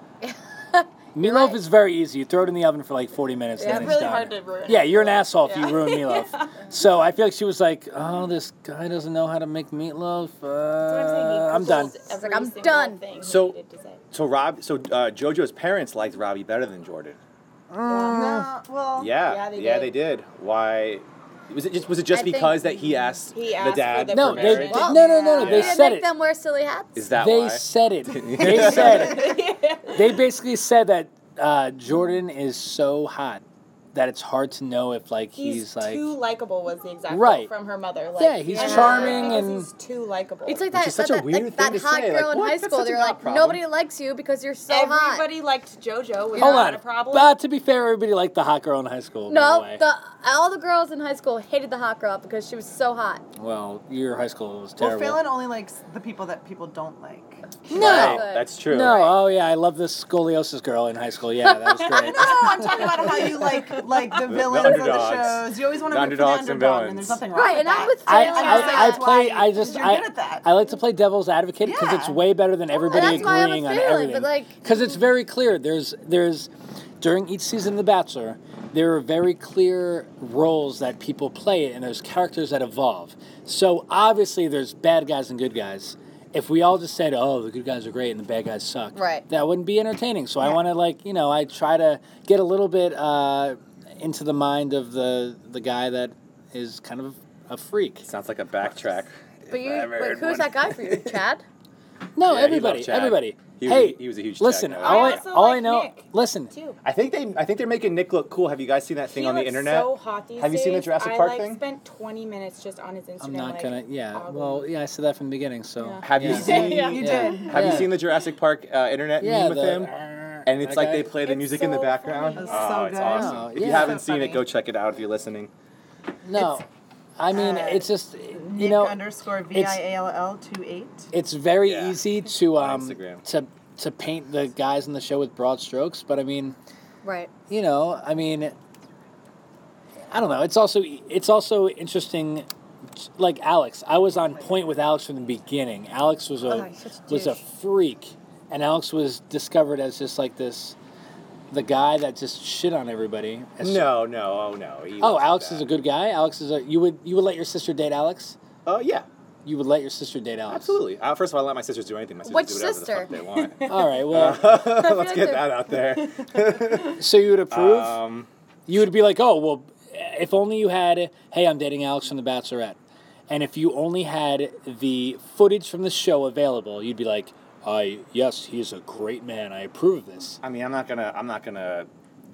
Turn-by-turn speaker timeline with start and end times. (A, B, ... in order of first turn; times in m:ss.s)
0:00.2-0:01.6 A
0:01.1-0:11.9 B
0:03.6-0:04.0 A
0:03.6-0:06.6 C
0:10.8-0:14.0 C
0:11.9-0:13.0 A
0:13.2-0:13.6 D
0:14.1-0:17.2 D
0:17.7-0:18.5 B
0:17.8-0:18.2 C
0:18.0-0:19.1 E
0:19.0-0:25.8 D
0:19.2-0:19.9 C
0:22.1-0:22.8 A
0:23.3-0:25.7 C
0:24.1-0:26.1 B
0:24.7-0:27.1 A
0:27.0-0:29.2 D
0:27.2-0:33.4 B
0:28.4-0:29.0 E
0:28.6-0:30.2 C
0:33.9-0:36.1 B
0:35.3-0:40.6 C
0:37.1-0:37.5 B
0:38.2-0:39.7 B
0:38.5-0:39.4 A
0:40.4-0:45.3 A
0:40.7-0:43.6 D
0:44.7-0:47.4 C
0:46.3-0:46.7 A
0:46.4-0:49.8 B
0:49.3-0:53.2 A
0:53.4-0:55.2 B
0:54.8-0:58.0 E
0:57.7-1:03.3 B
0:57.7-0:59.0 D
0:57.8-0:59.2 A
1:02.0-1:10.5 E
1:04.3-1:07.2 D
1:07.3-1:09.1 A
1:08.0-1:38.1 B
1:11.6-1:12.2 E
1:12.7-1:14.6 A
1:38.0-1:41.2 D
1:39.5-1:41.4 A
1:42.2-1:46.5 B
1:42.2-1:45.2 D
1:44.8-1:46.8 C
1:46.8-1:51.6 D
1:49.1-1:54.7 C
1:53.2-1:58.0 B
1:55.8-1:57.5 C
1:56.0-1:59.9 D
1:56.3-1:57.9 E
1:59.2-2:01.1 B
2:00.4-2:05.5 D
2:01.2-2:02.8 C
2:02.3-2:04.4 E
2:03.0-2:04.0 B
2:06.2-2:06.6 B
2:07.2-2:09.0 B
2:07.3-2:11.1 E
2:09.5-2:09.8 B
2:11.1-2:16.6 B
2:11.6-2:12.0 D
2:12.5-2:13.2 D
2:17.0-2:17.3 A
2:17.5-2:18.5 B
2:20.1-2:22.5 B
2:23.0-2:30.8 B
2:26.4-2:27.4 A
2:31.5-2:34.0 B
2:33.6-2:35.7 D
2:35.0-2:38.4 B
2:38.6-2:39.0 D
2:39.4-2:40.8 B
2:40.5-2:48.3 D
2:42.2-2:43.1 A
2:43.6-2:44.4 B
2:44.5-2:45.5 A
2:47.0-2:48.0 B
2:48.7-2:52.8 B
2:53.3-3:00.4 B
3:00.4-3:01.9 D